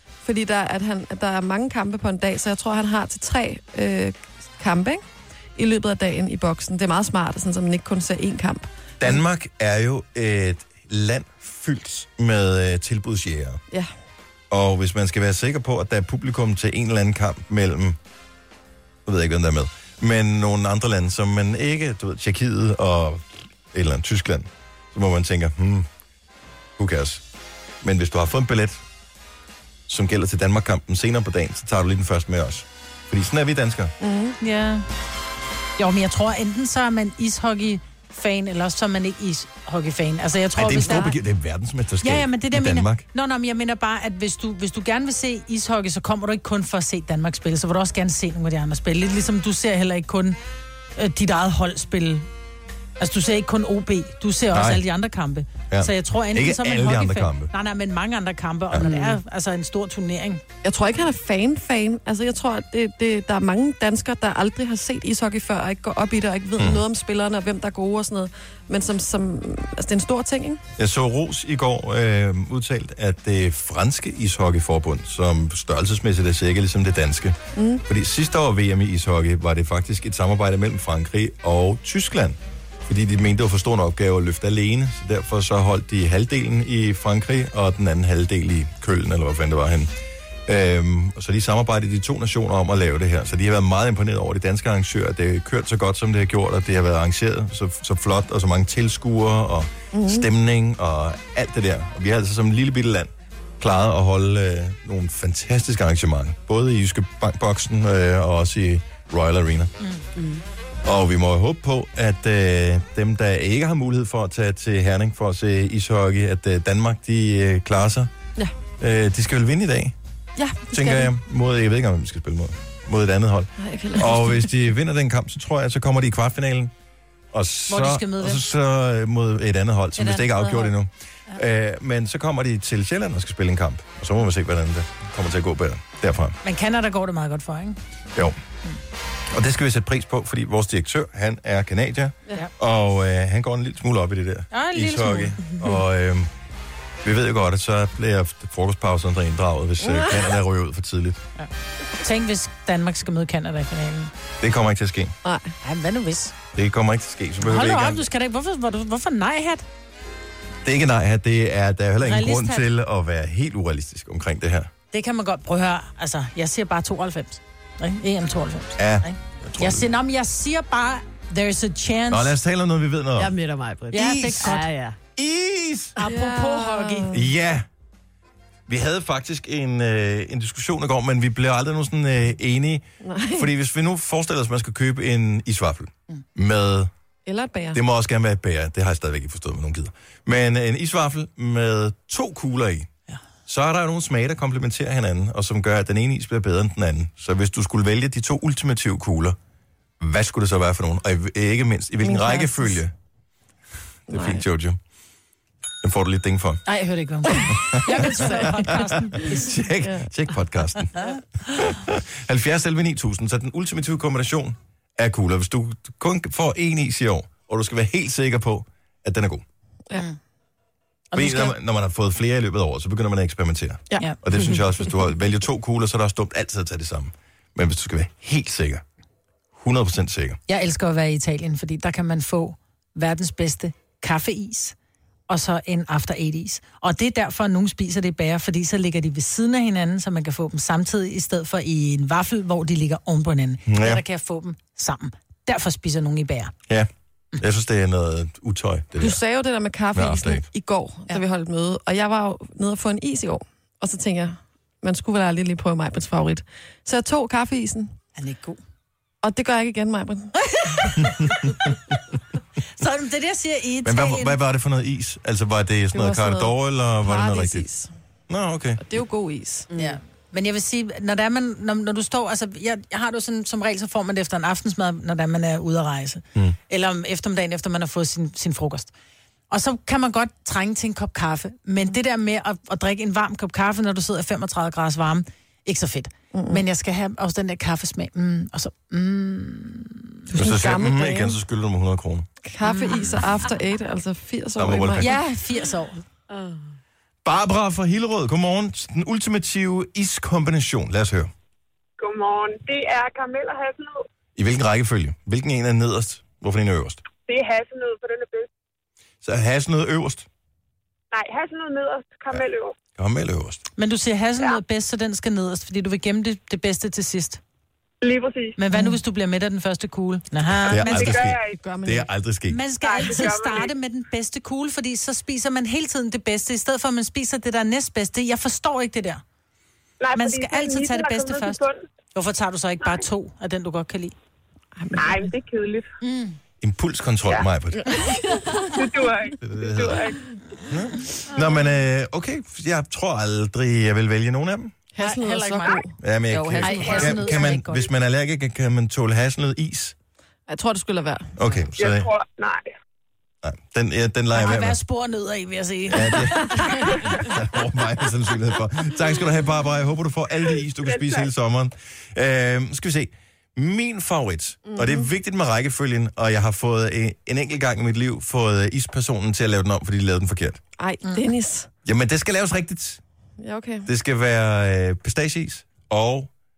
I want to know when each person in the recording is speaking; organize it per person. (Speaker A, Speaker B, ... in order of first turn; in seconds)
Speaker A: 0.2-5.0, 5.5-9.2, 34.0-34.4, 60.6-70.6, 77.5-77.8, 99.9-100.3, 120.4-121.1, 123.6-124.5, 149.8-150.2, 155.2-155.5, 176.0-177.2, 183.0-183.5, 187.2-187.8, 202.0-202.8, 204.1-204.4, 207.3-209.3, 209.8-210.1, 249.0-257.9, 259.2-260.3, 265.9-267.9, 268.8-269.7, 286.3-286.6, 290.3-291.4, 292.5-295.2, 321.6-322.1, 334.8-335.3, 344.9-347.4, 350.5-351.7, 364.7-365.1, 370.8-371.7, 373.4-373.9
Speaker B: 9.0-13.6, 14.5-18.0, 19.1-25.9, 26.8-27.2, 27.8-28.8, 29.9-33.9, 40.5-43.0, 54.5-54.8, 55.7-57.5, 66.6-66.8, 70.8-89.9, 90.5-109.7, 110.8-118.1, 118.8-119.9, 120.7-126.7, 127.3-136.4, 139.3-146.3, 147.0-151.2, 154.4-155.1, 156.5-158.1, 160.6-164.7, 168.8-169.9, 172.1-173.3, 173.9-174.6, 175.2-176.0, 177.1-177.7, 178.7-186.9, 187.7-192.9, 193.5-199.4, 200.0-202.9, 204.1-204.8, 205.8-206.6, 207.7-219.4, 221.1-228.8, 229.5-230.4, 243.7-244.0, 246.7-249.2, 249.9-250.4, 261.1-261.4, 263.8-267.6, 268.3-268.8, 290.3-292.2, 294.6-295.1, 297.2-301.3, 304.4-307.0, 309.2-310.2, 312.9-313.6, 320.7-322.6, 336.6-337.9, 339.4-340.0, 340.7-344.7, 346.0-349.9, 351.4-352.1, 353.4-354.8, 355.9-370.6, 371.8-373.0, 373.9-376.3
Speaker C: 34.4-34.8, 35.8-41.2, 42.0-50.4, 51.0-52.3, 53.0-60.4, 127.7-128.4, 130.0-130.7, 136.4-137.8, 144.5-145.5, 152.0-154.1, 155.6-156.3, 157.4-159.6, 162.0-162.7, 164.9-172.3, 173.9-174.7, 176.0-177.1, 206.7-209.5, 221.1-221.6, 230.5-234.7, 235.3-246.5, 258.1-258.6, 260.4-261.3, 262.8-264.4, 269.7-278.9, 279.5-290.3, 292.6-293.2, 295.0-296.0, 313.8-317.4, 318.6-321.2, 322.5-329.2, 330.1-331.6, 332.1-334.1, 336.0-336.4, 345.0-345.8, 346.6-347.9, 354.3-357.0
Speaker D: 110.2-110.4, 173.2-175.0, 296.3-296.6
Speaker E: 302.0-303.9, 307.3-308.4, 311.1-312.7, 318.0-318.6, 320.8-321.5, 322.8-323.7, 330.0-331.7, 335.0-335.8, 338.8-340.1, 351.8-352.6